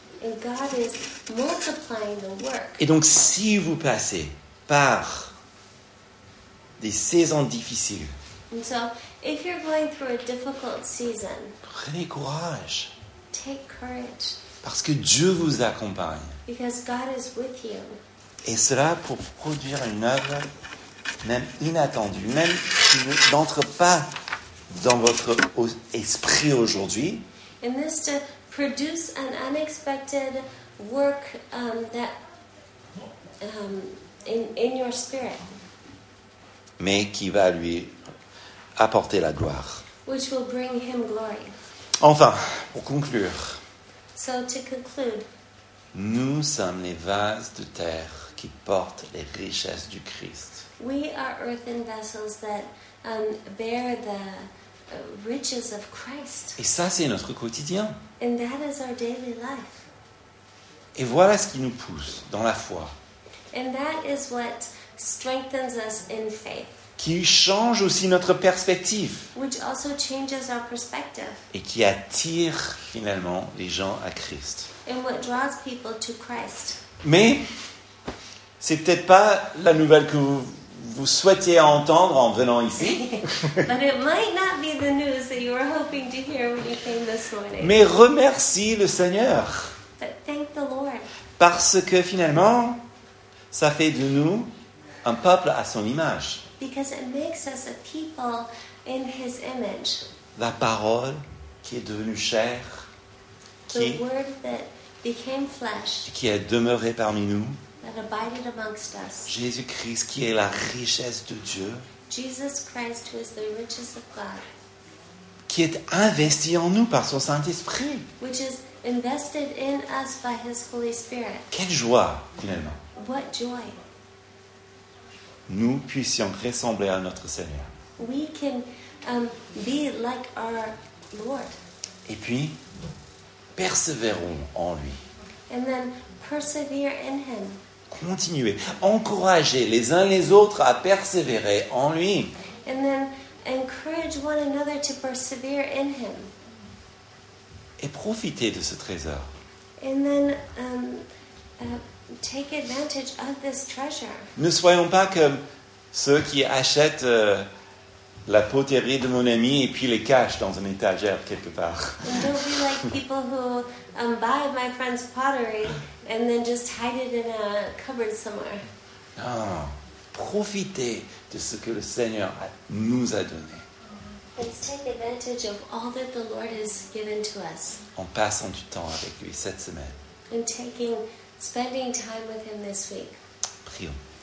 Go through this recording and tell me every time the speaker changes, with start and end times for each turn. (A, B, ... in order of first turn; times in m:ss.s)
0:00.2-0:02.8 A
0:02.8-0:05.3 B
0:06.8-0:08.1 B
0:08.5-0:11.6 A
0:11.6-0:12.9 B
0:13.3-0:14.4 A
0:14.6-0:16.4 B
0:16.4-0:18.0 A
0:18.4-0:20.5 B
0:21.2-0:24.1 B
0:24.7-0:27.2 B
0:27.6-0:32.1 A
0:33.4-0:35.5 A
0:36.8-0:38.0 B
0:38.8-0:39.8 B
0:40.0-0:41.6 A
0:42.0-0:43.6 B
0:44.1-0:45.3 A
0:45.9-0:50.6 B
0:50.8-0:56.6 A
0:56.6-0:58.0 B
0:58.2-0:59.9 A
1:01.0-1:02.9 B
1:03.5-1:06.8 A
1:07.0-1:09.3 B
1:09.3-1:11.4 A
1:11.5-1:14.7 B
1:14.8-1:16.8 A
1:17.0-1:17.4 B
1:18.6-1:23.6 B
1:22.8-1:27.8 A
1:27.6-1:29.8 B
1:30.0-1:31.1 A
1:31.4-1:32.8 B
1:33.5-1:34.5 B
1:35.0-1:36.4 B
1:36.6-1:40.1 A
1:40.4-1:42.9 B
1:43.7-1:44.0 B
1:43.7-1:46.1 A
1:46.1-1:47.6 B
1:47.8-1:49.3 A
1:49.3-1:51.8 B
1:52.1-1:54.5 A
1:55.5-1:58.1 B
1:58.2-2:01.5 A
2:01.5-2:02.8 B
2:03.0-2:03.8 A
2:05.5-2:07.7 B
2:08.0-2:11.5 A
2:12.1-2:12.6 B
2:13.6-2:15.0 B
2:15.5-2:17.6 A
2:17.9-2:22.3 B
2:22.6-2:26.3 A
2:27.8-2:29.3 B
2:29.8-2:31.0 A
2:31.6-2:34.3 A
2:34.4-2:35.4 B
2:35.9-2:37.5 B
2:38.3-2:42.9 B
2:42.0-2:48.6 A
2:49.2-2:53.6 B
2:54.4-2:57.8 A
2:58.0-3:00.0 B
3:00.3-3:03.2 A
3:03.6-3:04.0 B